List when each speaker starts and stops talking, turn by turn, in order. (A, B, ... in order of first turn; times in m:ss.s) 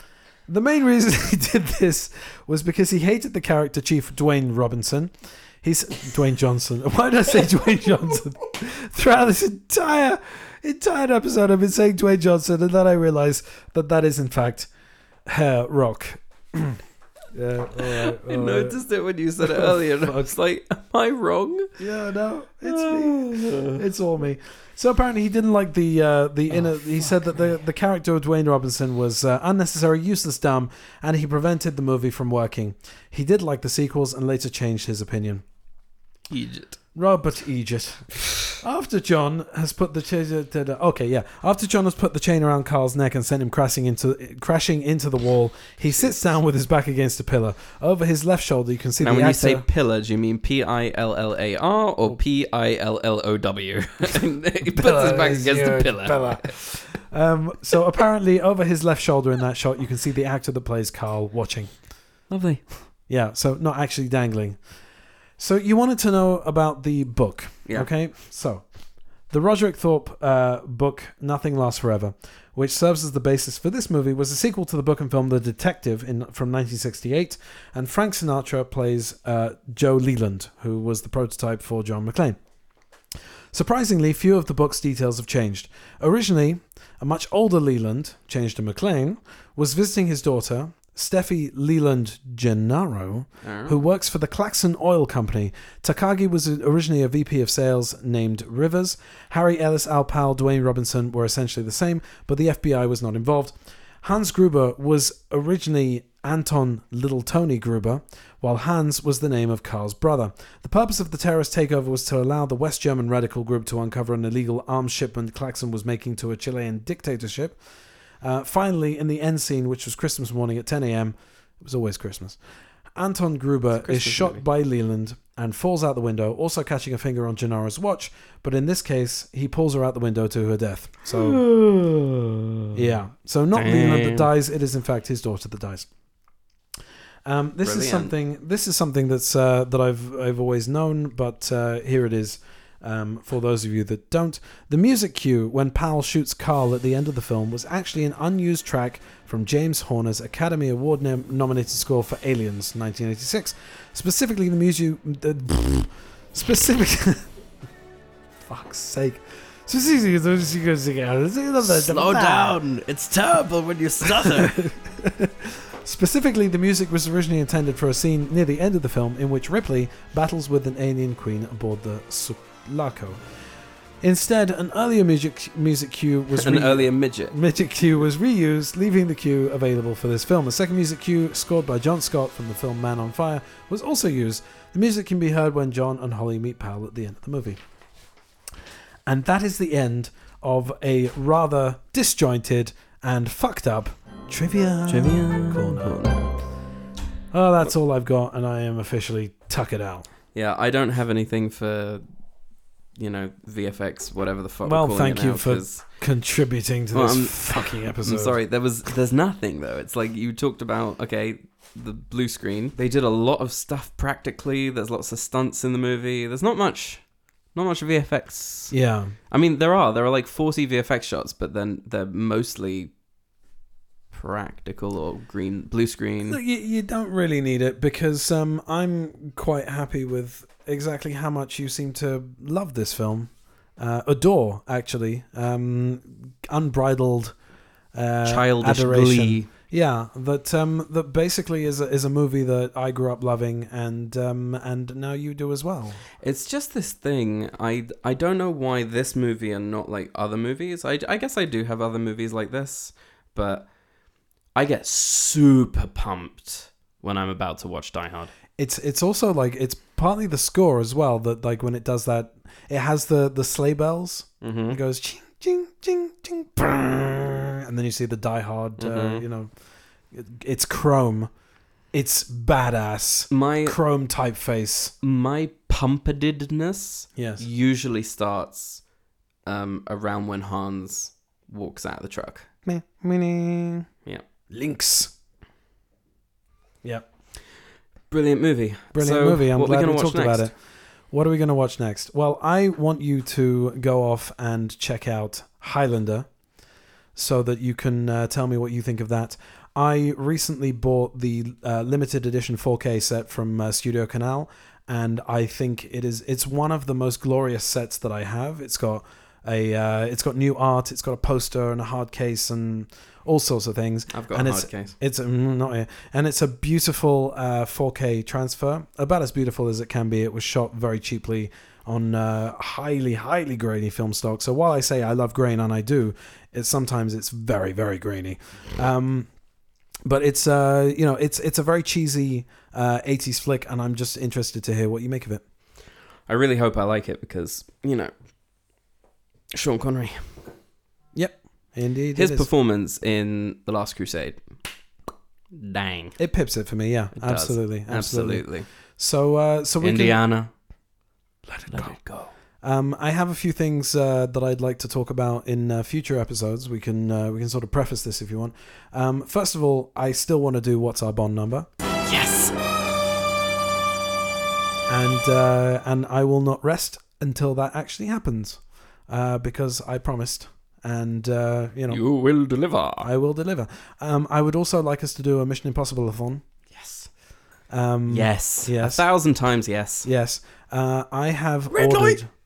0:00.5-0:14.7 A
0:15.3-0:16.8 A
0:17.3-0:18.8 A
0:17.9-0:21.7 B
0:19.4-0:20.3 A
0:21.8-0:35.4 A
0:22.6-0:23.8 B
0:36.3-0:36.8 B
0:37.0-0:49.6 A
0:49.0-0:56.6 B
0:54.6-1:01.7 A
1:02.3-1:02.6 B
1:03.1-1:04.6 A
1:05.4-1:08.6 A
1:09.3-1:22.4 A
1:23.5-1:57.6 A
1:33.4-1:33.8 B
1:58.2-2:02.4 A
2:03.0-2:11.4 A
2:03.8-2:04.4 B
2:11.1-2:12.7 B
2:12.7-2:15.9 A
2:13.5-2:14.3 B
2:17.2-2:37.3 A
2:17.6-2:18.1 B
2:38.4-2:42.6 A
2:41.6-2:44.7 B
2:44.0-2:53.2 A
2:54.0-3:07.6 A
2:56.4-2:57.3 B
3:09.1-3:16.0 A
3:14.9-3:16.4 B
3:17.3-3:20.1 A
3:20.3-3:22.0 B
3:23.0-3:25.8 B
3:24.6-3:28.4 A
3:26.9-3:37.0 B
3:37.5-3:38.7 B
3:38.7-3:39.2 A
3:39.3-3:42.9 B
3:44.1-3:46.4 B
3:46.3-3:57.4 A
3:57.9-4:06.0 A
3:58.2-3:59.5 B
4:06.2-4:13.7 B
4:14.6-4:18.3 B
4:18.6-4:29.5 A
4:24.4-4:24.8 B
4:28.8-4:29.2 B
4:30.1-4:31.3 A
4:31.9-4:34.9 A
4:33.3-4:33.8 B
4:35.0-4:38.8 B
4:37.2-4:37.4 A
4:39.4-4:42.5 B
4:42.6-4:43.9 A
4:44.5-4:45.1 A
4:48.1-4:50.5 B
4:48.9-4:50.6 A
4:51.1-4:56.3 A
4:57.2-5:29.3 A
5:14.1-5:14.9 B
5:30.0-5:35.4 A
5:36.3-5:38.1 B
5:39.5-5:40.4 B
5:41.1-5:42.5 A
5:42.2-5:44.4 B
5:45.6-5:46.2 B
5:46.2-5:50.2 A
5:47.2-5:48.6 B
5:49.8-5:50.5 B
5:51.4-5:52.0 A
5:51.7-5:52.3 B
5:52.6-6:01.7 A
6:02.0-6:02.6 B
6:04.9-6:12.0 A
6:11.9-6:13.1 B
6:13.0-6:16.4 A
6:16.7-6:17.1 B
6:17.7-6:19.1 A
6:18.1-6:20.1 B
6:20.0-6:22.3 A
6:21.7-6:22.2 B